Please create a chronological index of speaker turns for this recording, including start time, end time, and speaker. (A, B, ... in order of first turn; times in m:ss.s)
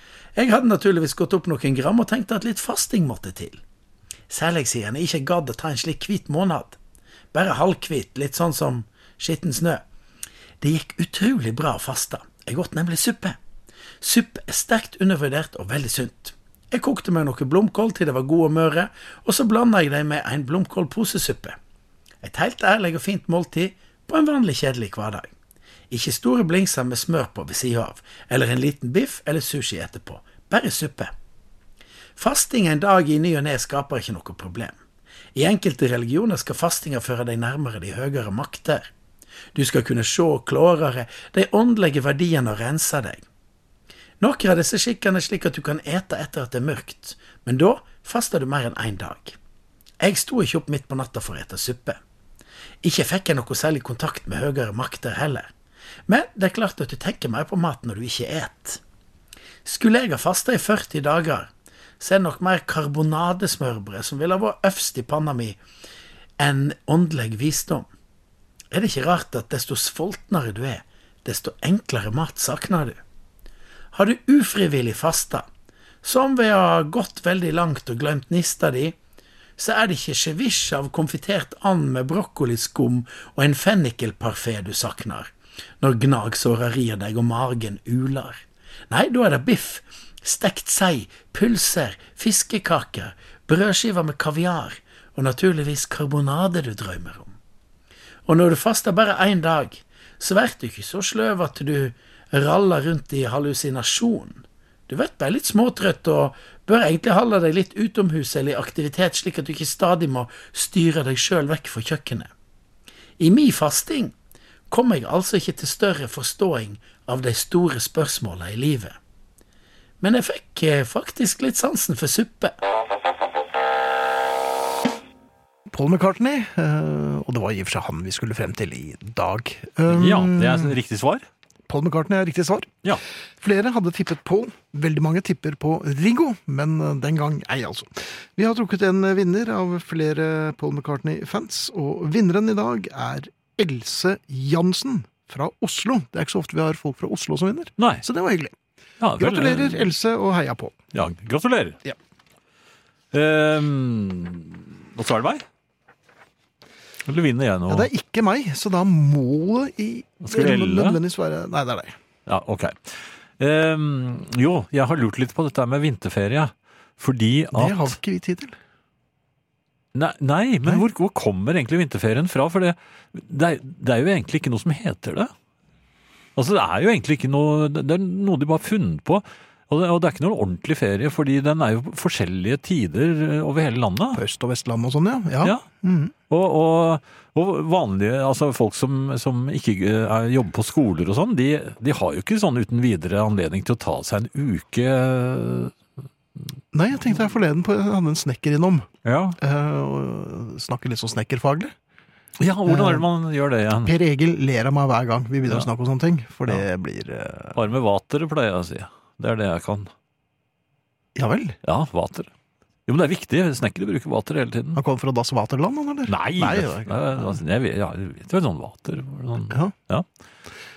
0:00.4-0:03.6 A
0:04.3-0:06.8 A
0:07.3-0:09.8 A
0:10.6-0:13.4 A
0:14.0-0:21.6 A
0:22.2-0:25.3 A
0:25.9-0:31.1 A
0:32.2-0:34.8 A
0:35.4-0:38.9 A
0:39.6-0:43.2 A
0:44.2-0:49.4 A
0:50.0-0:52.0 A
0:52.8-0:55.5 A
0:56.1-0:58.8 A
0:59.6-1:05.6 A
1:06.4-1:07.9 A
1:08.7-1:13.0 A
1:13.9-1:15.5 A
1:16.0-1:19.0 A
1:19.6-1:37.4 A
1:38.3-1:52.3 A
1:53.2-1:54.1 A
1:54.7-1:59.0 A
2:00.0-2:02.6 A
2:05.7-2:10.8 B
2:09.9-2:11.3 C
2:11.7-2:12.8 B
2:13.4-2:28.5 B
2:27.8-2:28.0 C
2:29.0-2:29.9 C
2:29.2-2:30.8 B
2:30.9-2:31.8 C
2:33.1-2:35.5 C
2:37.0-2:37.9 C
2:37.7-2:42.0 B
2:40.2-2:41.0 C
2:42.3-2:48.0 C
2:47.5-2:48.6 B
2:49.9-2:55.3 C
2:56.4-3:04.2 C
3:04.1-3:06.2 B
3:06.3-3:15.7 C
3:16.7-3:18.9 B
3:19.0-3:19.4 C
3:19.4-3:21.7 B
3:22.4-3:23.9 C
3:22.7-3:23.1 B
3:23.8-3:27.6 B
3:27.6-3:29.9 C
3:31.2-3:31.6 B
3:31.6-3:32.3 C
3:32.9-3:34.8 C
3:34.8-3:37.4 B
3:36.1-3:40.1 C